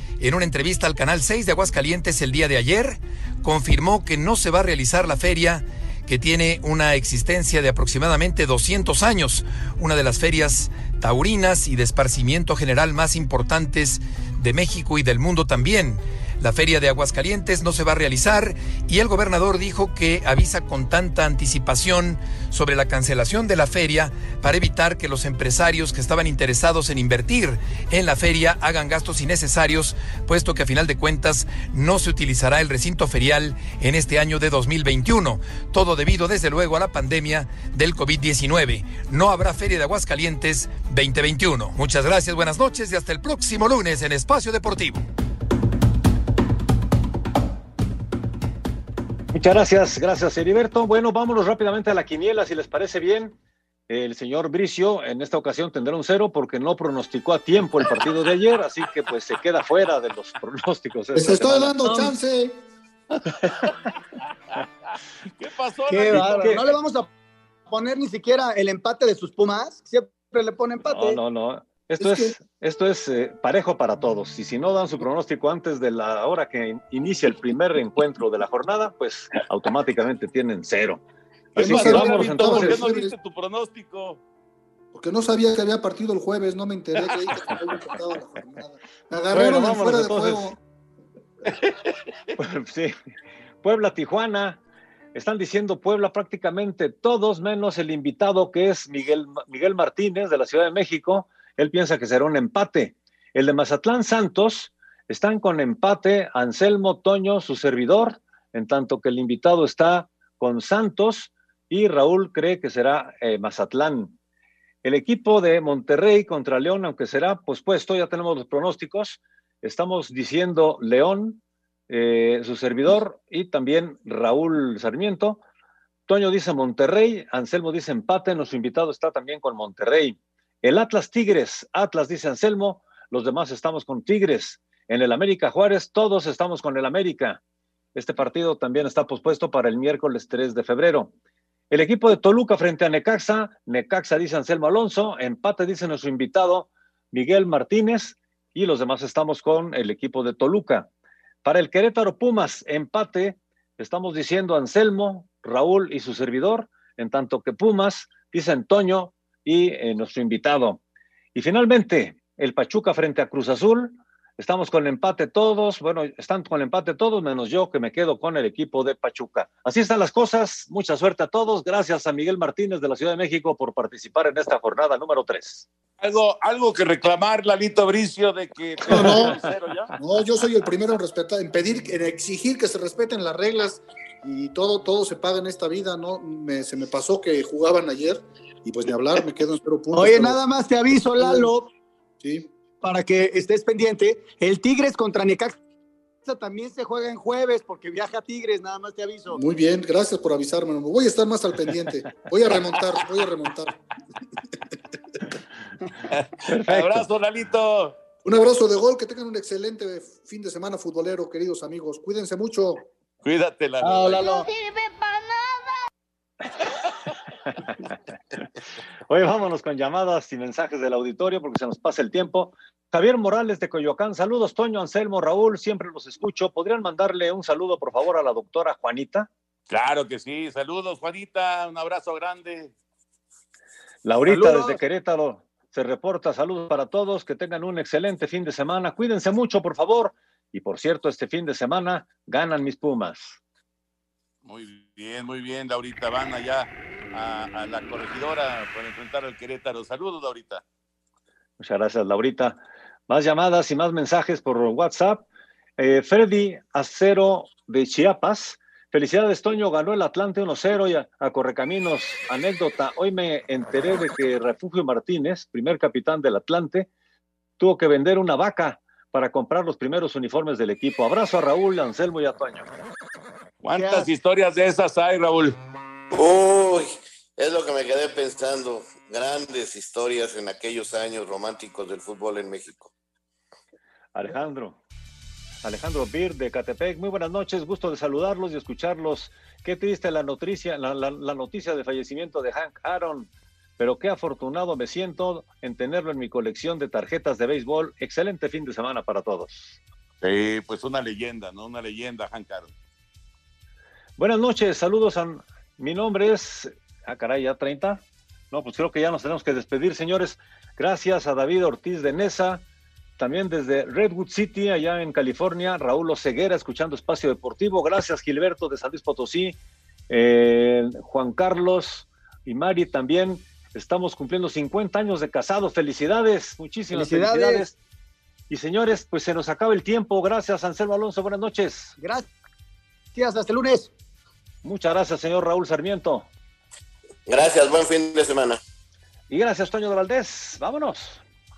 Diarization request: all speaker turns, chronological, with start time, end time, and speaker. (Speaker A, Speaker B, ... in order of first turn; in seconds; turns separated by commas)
Speaker A: 0.2-45.0, Speaker B: 49.3-53.4, Speaker B: 53.9-62.0, Speaker C: 61.1-62.6, Speaker D: 65.4-66.7, Speaker E: 65.9-67.1, Speaker E: 67.7-71.2, Speaker B: 70.8-81.0, Speaker C: 72.0-72.3, Speaker B: 81.6-82.8, Speaker C: 81.6-83.1, Speaker D: 81.7-84.2, Speaker C: 84.9-90.6, Speaker B: 89.3-90.6, Speaker B: 92.4-92.9, Speaker B: 93.6-94.6, Speaker B: 95.2-114.1, Speaker B: 114.8-125.4, Speaker B: 126.1-137.4, Speaker B: 137.9-141.1, Speaker B: 141.7-150.9, Speaker B: 151.4-160.8, Speaker B: 161.3-175.7, Speaker D: 176.0-179.9, Speaker B: 178.9-179.4, Speaker C: 179.0-179.3, Speaker C: 180.0-190.4, Speaker E: 189.9-191.7, Speaker C: 191.2-191.5, Speaker C: 192.2-192.5, Speaker E: 192.8-195.6, Speaker E: 196.2-199.4, Speaker C: 199.3-203.8, Speaker D: 206.1-208.0, Speaker B: 206.5-207.0, Speaker C: 208.2-212.9, Speaker D: 213.2-214.3, Speaker E: 213.8-214.5, Speaker B: 219.1-229.3, Speaker D: 229.7-232.7, Speaker B: 234.1-243.4, Speaker E: 234.3-234.8, Speaker D: 244.4-250.6, Speaker B: 251.6-255.2, Speaker B: 255.8-266.9, Speaker B: 267.6-272.7, Speaker D: 273.6-275.6, Speaker E: 273.8-274.1, Speaker F: 276.1-282.9, Speaker B: 284.1-284.8, Speaker B: 285.6-299.8, Speaker D: 300.2-302.7, Speaker B: 304.2-312.6, Speaker B: 313.2-319.6, Speaker B: 320.1-327.8, Speaker E: 326.9-327.7, Speaker B: 328.5-331.9, Speaker E: 332.0-332.3, Speaker E: 333.1-333.9, Speaker B: 334.6-336.3, Speaker F: 337.3-338.6, Speaker B: 339.3-341.2